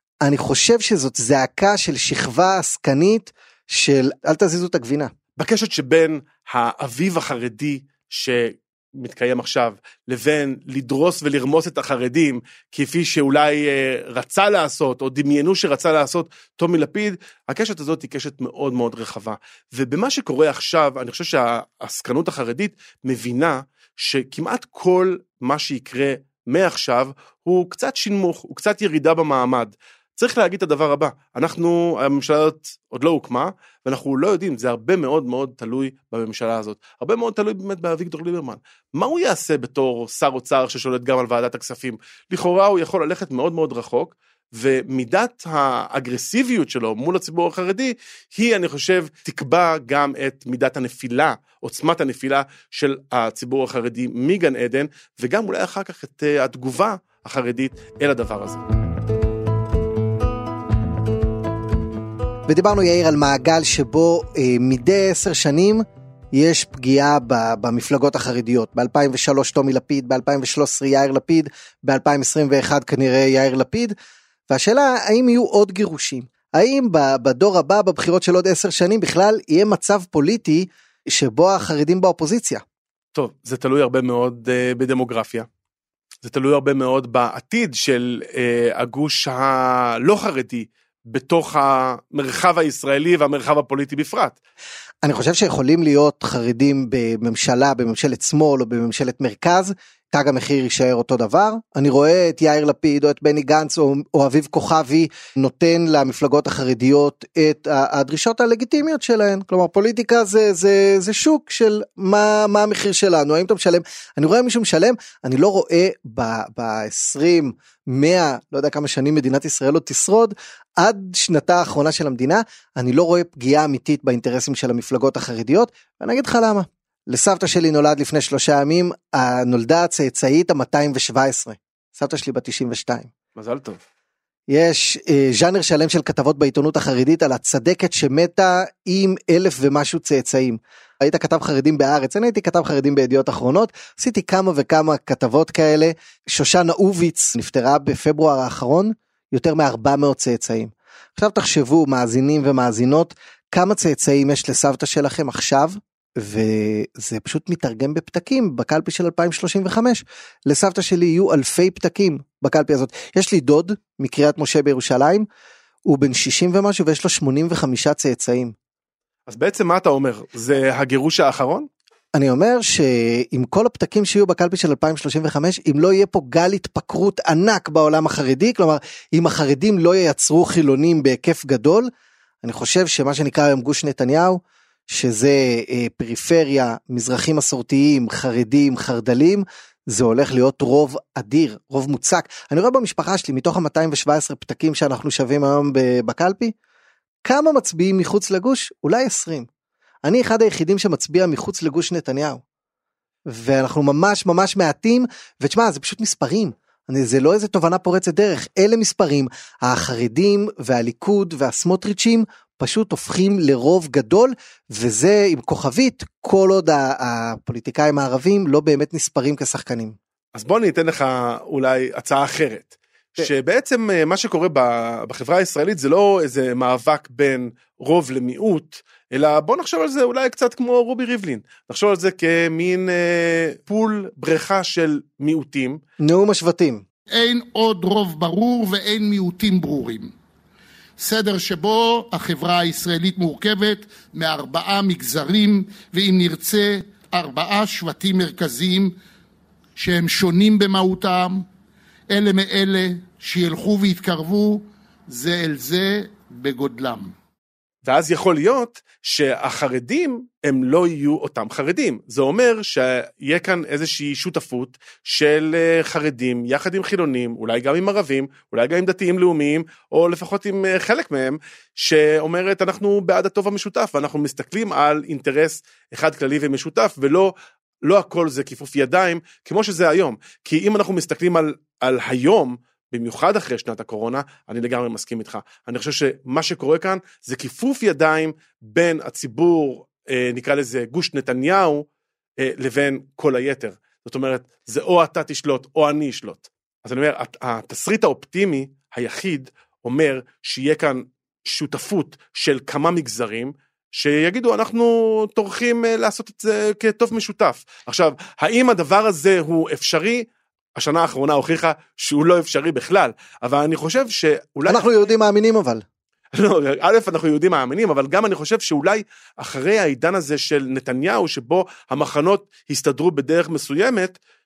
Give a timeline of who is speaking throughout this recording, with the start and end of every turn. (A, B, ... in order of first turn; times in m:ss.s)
0:00.2-0:05.1 A
0:05.4-0:58.6 B
1:02.5-1:14.0 A
1:14.5-1:22.6 A
1:23.2-1:25.5 B
1:26.2-1:34.4 B
1:35.0-2:13.1 A
2:13.4-2:13.8 B
2:14.5-2:45.3 A
2:45.8-2:48.5 A
2:49.3-2:51.7 B
2:52.1-3:01.9 A
3:02.4-3:16.5 A
3:17.2-3:19.5 A
3:20.0-3:22.4 A
3:23.3-3:40.0 A
3:40.4-3:55.8 B
3:56.0-3:56.8 A
3:57.1-4:00.1 C
4:01.0-4:08.9 C
4:09.8-4:11.4 C
4:12.1-4:17.1 C
4:17.8-4:51.9 B
4:52.4-5:10.2 B
5:10.8-5:14.9 B
5:14.7-5:15.8 A
5:16.3-5:24.2 B